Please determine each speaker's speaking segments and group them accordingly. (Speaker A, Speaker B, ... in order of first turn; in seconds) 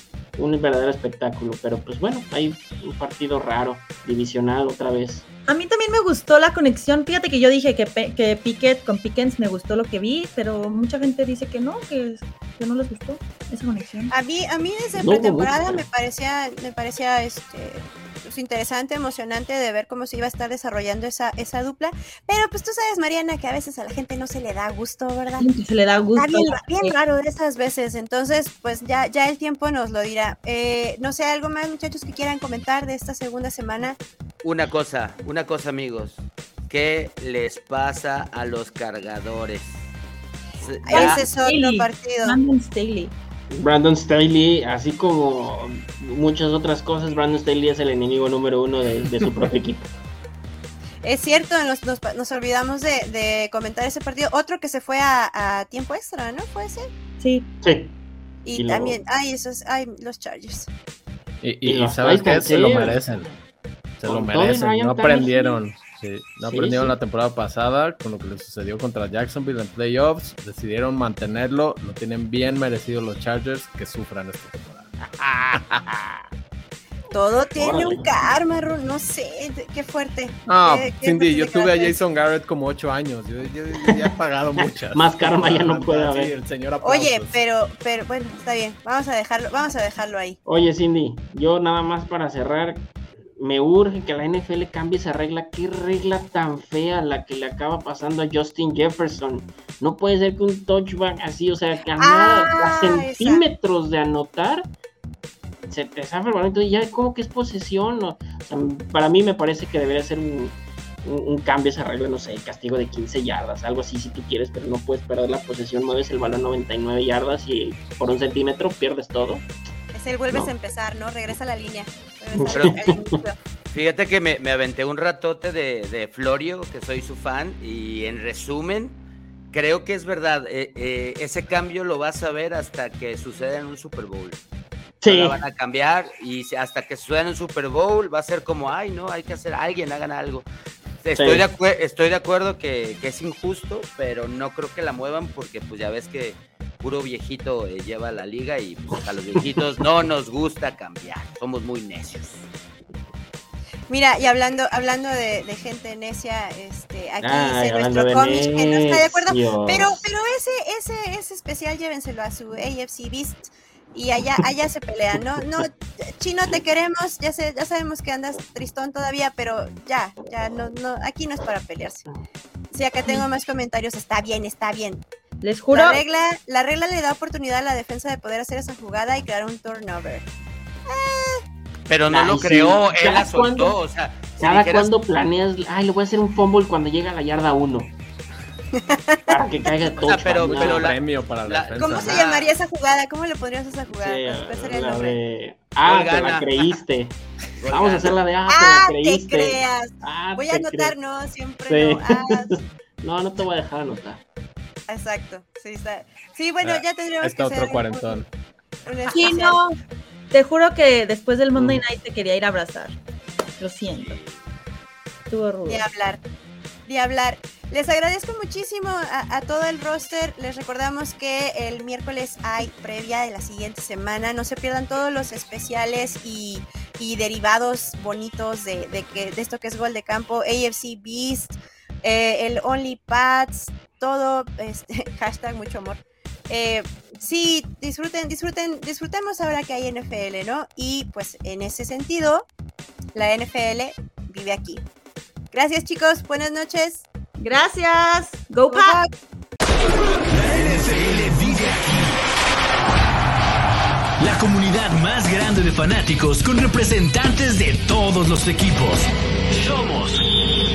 Speaker A: 0.4-5.3, 15.0-15.9, 43.5-49.9, 57.6-58.0, 58.5-59.0, 61.6-63.2, 64.1-65.6, 66.4-67.0, 77.6-78.1, 83.8-86.3, 90.5-104.7, 105.7-119.5, 122.4-123.2, 135.0-135.4, 141.2-141.4, 157.2-160.0, 182.1-183.8, 184.4-188.0, 189.3-191.0, 193.9-197.2, 197.7-201.0, 201.7-204.2, 211.6-211.8
Speaker B: 5.5-14.1, 25.4-27.0, 40.9-43.1, 57.2-57.5, 175.4-176.0, 209.1-209.8, 210.3-213.0, 213.6-214.2, 215.3-215.8, 247.4-249.0
Speaker C: 14.1-25.5, 26.2-34.0, 40.9-42.4, 51.0-56.9, 58.5-60.7, 77.1-82.0, 86.8-90.4, 102.0-103.4, 119.9-123.4, 153.9-172.1, 172.7-175.1, 175.7-180.3, 180.9-181.4, 188.8-189.4, 191.8-195.2, 198.5-202.6, 204.9-208.2, 208.9-209.6, 215.7-216.2, 216.9-242.5, 243.2-244.8, 245.5-247.1, 248.7-249.1
Speaker D: 34.4-39.9, 40.6-41.3, 122.5-122.9, 123.7-129.0, 129.5-134.4, 135.1-140.5, 141.0-152.4, 181.9-184.9, 190.0-192.6, 195.8-196.6, 197.6-198.2, 213.9-214.5
Speaker E: 61.4-63.4, 64.0-76.2, 80.5-87.4, 190.1-192.2, 206.6-208.3
Speaker F: 250.3-252.2, 254.2-260.2